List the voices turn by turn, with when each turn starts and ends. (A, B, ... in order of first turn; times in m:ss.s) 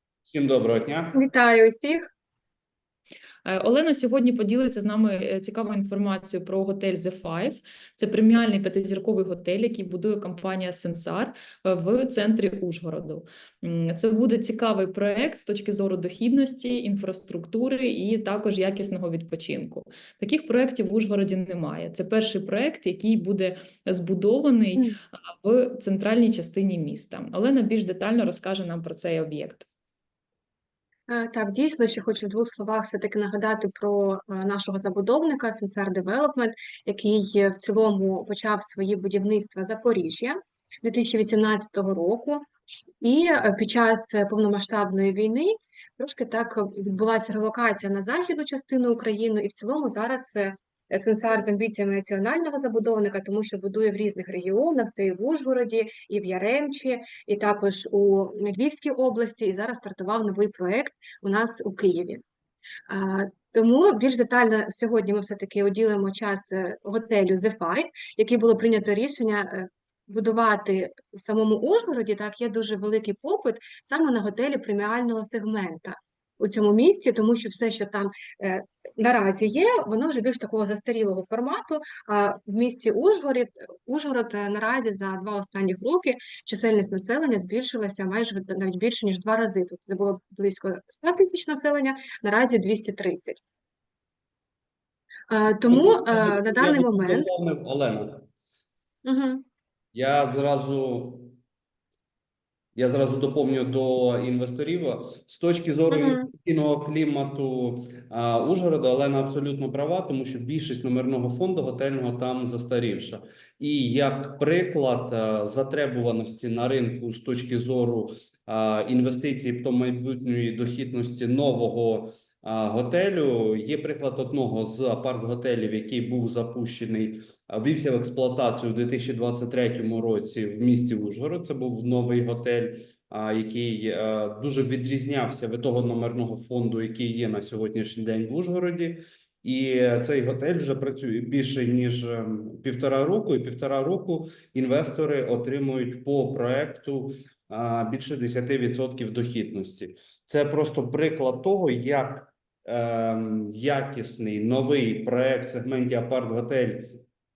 0:00.2-0:01.2 A
0:01.1-0:02.0 B
0:03.4-0:29.7 C
0:31.1-0:42.5 B
0:43.0-1:02.2 B
1:02.9-1:33.4 B
1:35.3-1:37.3 B
1:35.7-1:38.2 A
1:39.0-1:39.4 B
1:39.9-1:41.4 A
1:42.8-2:37.0 A
1:45.9-1:46.3 B